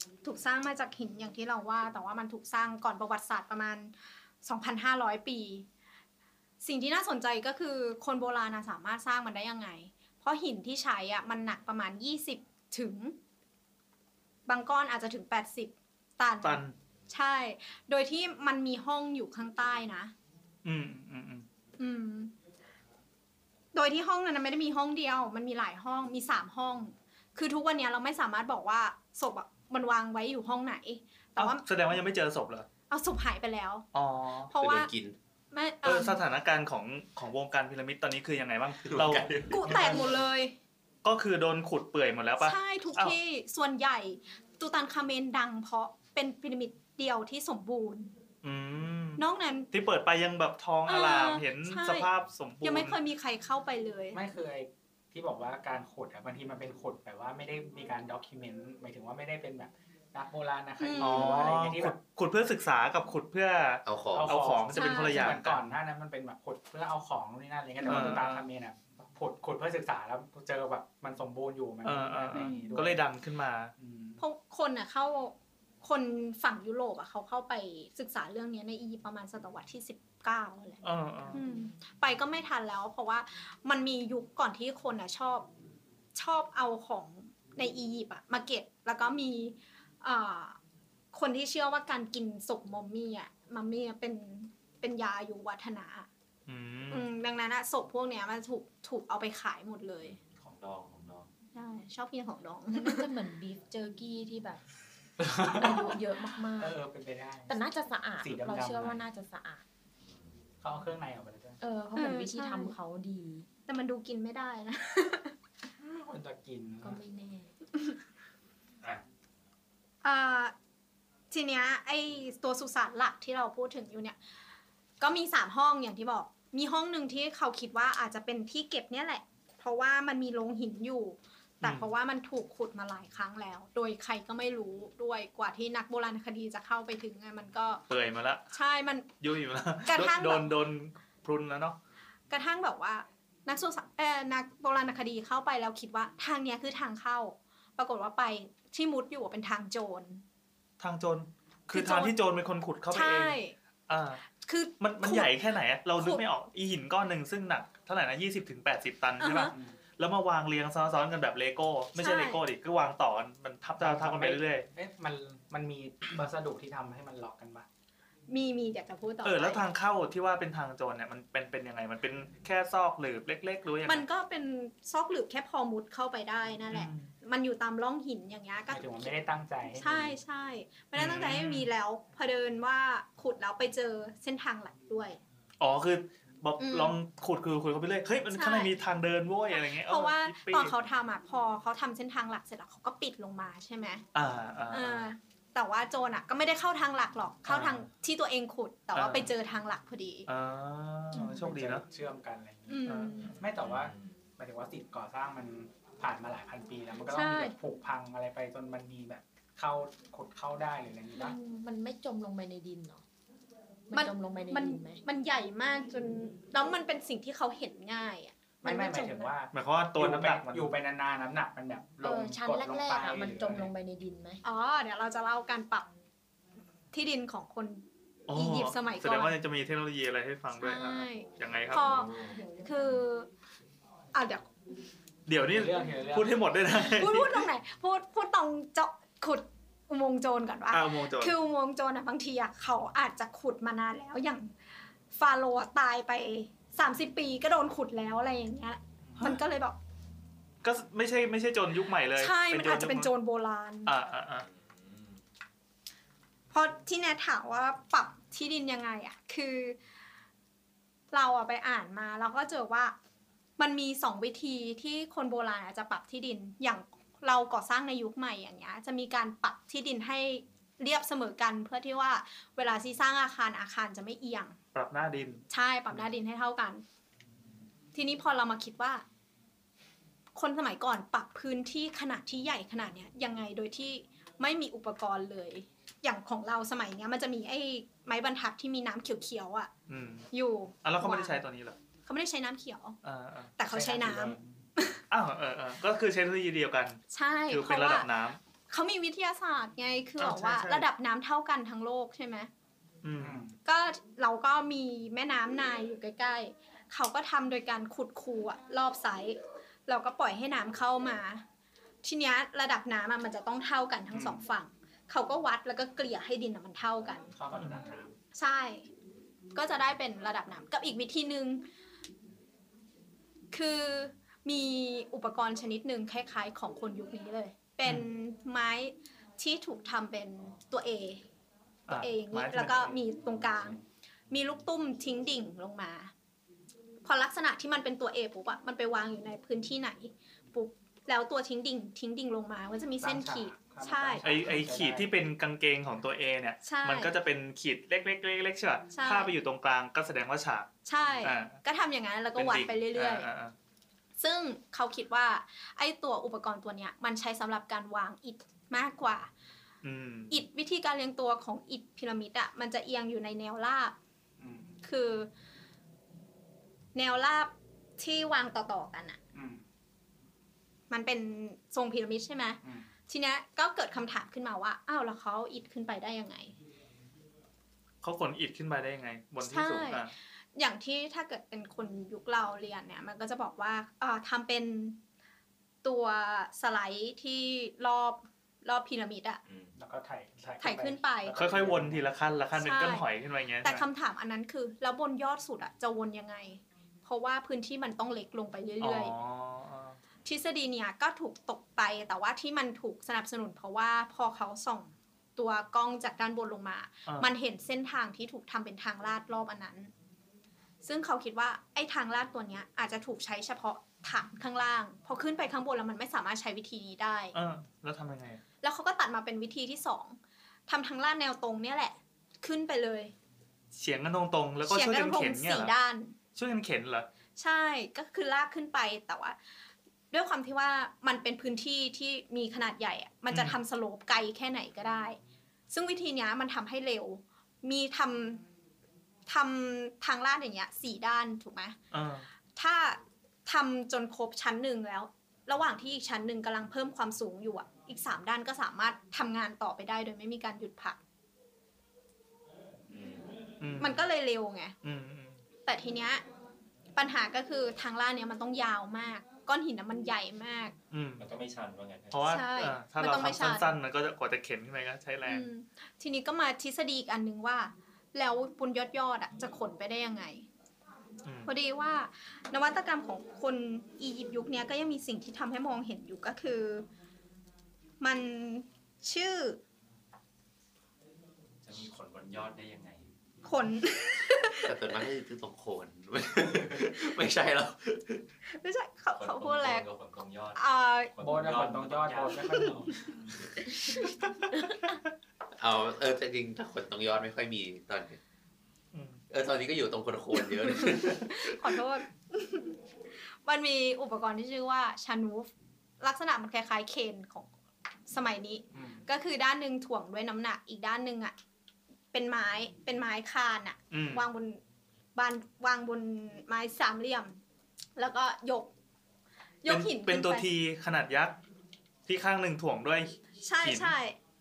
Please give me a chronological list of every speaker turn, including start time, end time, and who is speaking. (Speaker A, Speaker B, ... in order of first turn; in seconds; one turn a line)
Speaker A: 0.2-5.7
Speaker A: 6.6-13.2
Speaker A: 14.5-20.1
Speaker B: 16.4-16.8
Speaker B: 20.6-21.5
Speaker A: 21.8-22.3
Speaker A: 23.7-31.7
Speaker B: 31.4-32.7
Speaker A: 32.9-33.9
Speaker B: 33.9-34.5
Speaker A: 34.5-34.9
Speaker C: 34.5-35.2
Speaker A: 35.5-36.2
Speaker B: 35.8-40.2
Speaker C: 38.9-39.8
Speaker A: 39.5-40.6
Speaker B: 41.0-43.2
Speaker A: 42.4-48.1
Speaker B: 48.4-53.0
Speaker A: 49.2-49.7
Speaker A: 50.9-52.1
Speaker A: 52.6-54.2
Speaker D: 54.1-62.0
Speaker A: 60.8-61.5
Speaker B: 61.0-65.6
Speaker C: 63.9-64.4
Speaker D: 64.1-73.0
Speaker A: 64.7-65.4
Speaker A: 67.8-68.2
Speaker B: 67.8-68.5
Speaker B: 71.8-73.7
Speaker A: 72.3-72.8
Speaker D: 73.8-74.2
Speaker A: 74.2-80.8
Speaker B: 80.8-81.4
Speaker A: 81.3-85.5
Speaker A: 86.2-90.6
Speaker A: 91.1-96.1
Speaker B: 96.5-97.1
Speaker A: 96.9-100.2
Speaker E: 100.0-101.3
Speaker A: 101.5-103.1
Speaker F: 102.7-104.6
Speaker D: 105.2-107.6
Speaker F: 105.5-106.8
Speaker F: 107.5-109.6
Speaker D: 108.2-109.0
Speaker E: 110.0-110.4
Speaker D: 110.6-111.6
Speaker F: 111.6-113.5
Speaker A: 112.0-112.8
Speaker A: 113.7-115.4
Speaker D: 115.8-117.0
Speaker F: 116.8-117.5
Speaker A: 120.0-120.5
Speaker A: 121.3-124.2
Speaker A: 125.0-137.8
Speaker B: 137.9-138.5
Speaker A: 138.5-139.1
Speaker B: 139.2-141.8
Speaker A: 139.9-140.5
Speaker A: 142.3-150.2
Speaker B: 150.8-154.3
Speaker A: 151.7-152.2
Speaker A: 152.9-153.6
Speaker A: 154.4-155.3
Speaker B: 154.8-164.7
Speaker A: 156.0-156.2
Speaker A: 159.2-159.5
Speaker D: 159.5-159.8
Speaker A: 162.0-162.4
Speaker D: 163.8-167.7
Speaker A: 168.3-169.6
Speaker B: 169.2-174.0
Speaker A: 173.9-179.2
Speaker B: 176.7-177.1
Speaker D: 178.7-180.2
Speaker A: 179.7-185.2
Speaker B: 180.9-181.7
Speaker B: 185.6-190.8
Speaker A: 186.6-187.0
Speaker A: 188.3-188.7
Speaker A: 189.5-194.0
Speaker B: 194.1-195.1
Speaker A: 194.7-200.3
Speaker B: 197.5-197.8
Speaker B: 198.9-199.3
Speaker B: 200.3-201.9
Speaker A: 201.1-201.5
Speaker D: 201.2-211.4
Speaker A: 202.7-203.3
Speaker B: 202.9-203.2
Speaker E: 203.4-204.3
Speaker A: 207.1-207.6
Speaker F: 211.1-213.0
Speaker F: 213.9-215.0
Speaker A: 213.9-219.3
Speaker D: 218.6-223.7
Speaker B: 219.5-220.7
Speaker F: 222.0-224.4
Speaker A: 224.4-225.9
Speaker A: 226.9-229.3
Speaker B: 228.3-231.8
Speaker A: 230.6-233.3
Speaker E: 231.3-232.4
Speaker F: 232.1-233.0
Speaker A: 234.1-234.5
Speaker B: 235.3-237.5
Speaker D: 235.4-236.4
Speaker A: 236.7-244.5
Speaker B: 240.7-241.3
Speaker A: 245.1-249.8
Speaker B: 250.6-253.1
Speaker A: 252.2-253.9
Speaker B: 253.9-254.5
Speaker E: 254.3-255.2
Speaker A: 256.5-259.8
Speaker A: 261.1-263.0
Speaker A: 263.6-274.6
Speaker B: 274.7-275.4
Speaker A: 275.5-276.8
Speaker A: 277.9-279.0
Speaker A: 280.4-289.7
Speaker B: 289.9-290.3
Speaker A: 290.3-291.4
Speaker B: 290.8-291.8
Speaker A: 292.1-293.0
Speaker B: 293.0-293.6
Speaker A: 293.6-295.0
Speaker D: 293.6-294.6
Speaker B: 295.1-298.4
Speaker A: 297.1-298.1
Speaker A: 298.7-302.5
Speaker B: 300.2-300.9
Speaker B: 303.0-303.4
Speaker D: 303.2-303.6
Speaker A: 303.6-311.4
Speaker A: 312.0-317.3
Speaker D: 314.1-314.4
Speaker D: 317.3-318.1
Speaker B: 317.5-317.8
Speaker A: 318.3-318.9
Speaker A: 319.6-321.7
Speaker A: 323.5-331.2
Speaker B: 327.8-328.1
Speaker B: 331.9-332.9
Speaker A: 332.0-336.1
Speaker A: 337.0-344.3
Speaker D: 343.0-345.1
Speaker B: 344.2-350.7
Speaker A: 346.6-347.1
Speaker A: 348.9-349.3
Speaker A: 350.9-353.3
Speaker B: 351.2-351.6
Speaker B: 352.4-353.5
Speaker A: 354.2-359.3
Speaker B: 359.8-360.3
Speaker A: 360.3-364.0
Speaker D: 364.4-364.8
Speaker A: 364.8-365.3
Speaker A: 366.9-369.2
Speaker D: 369.3-369.6
Speaker A: 370.9-376.6
Speaker D: 372.6-372.9
Speaker B: 378.0-380.1
Speaker A: 379.4-385.0
Speaker A: 385.8-389.4
Speaker E: 389.5-389.8
Speaker D: 389.8-392.1
Speaker A: 390.6-391.4
Speaker B: 391.4-393.9
Speaker A: 392.6-393.1
Speaker A: 393.6-399.1
Speaker B: 398.8-400.0
Speaker A: 400.2-409.9
Speaker B: 407.1-407.3
Speaker A: 410.8-417.4
Speaker B: 417.3-418.4
Speaker A: 418.6-423.1
Speaker B: 423.7-425.7
Speaker A: 424.7-426.2
Speaker B: 426.4-427.1
Speaker A: 427.4-429.4
Speaker A: 430.1-435.2
Speaker B: 433.3-433.6
Speaker A: 435.7-438.4
Speaker A: 439.3-441.8
Speaker B: 441.9-442.3
Speaker A: 442.6-451.0
Speaker E: 452.9-453.4
Speaker B: 453.6-454.1
Speaker A: 453.8-454.7
Speaker B: 454.8-455.4
Speaker A: 455.6-456.2
Speaker A: 457.0-460.8
Speaker B: 460.9-461.2
Speaker E: 461.2-462.3
Speaker B: 462.1-465.5
Speaker A: 462.2-463.7
Speaker A: 465.2-470.5
Speaker A: 471.5-476.9
Speaker A: 478.0-479.6
Speaker E: 481.6-483.2
Speaker A: 483.4-484.7
Speaker C: 484.6-488.3
Speaker A: 488.5-489.9
Speaker E: 489.2-490.6
Speaker A: 490.6-491.1
Speaker E: 491.2-492.9
Speaker D: 491.2-493.1
Speaker C: 495.6-498.2
Speaker B: 498.9-499.2
Speaker C: 499.3-501.8
Speaker A: 500.7-502.8
Speaker A: 503.3-507.5
Speaker A: 508.1-511.3
Speaker D: 508.7-509.0
Speaker A: 512.1-514.6
Speaker B: 513.9-514.2
Speaker A: 515.1-517.4
Speaker A: 518.0-518.7
Speaker A: 519.6-520.5
Speaker B: 519.7-521.4
Speaker B: 522.1-523.9
Speaker A: 523.4-524.2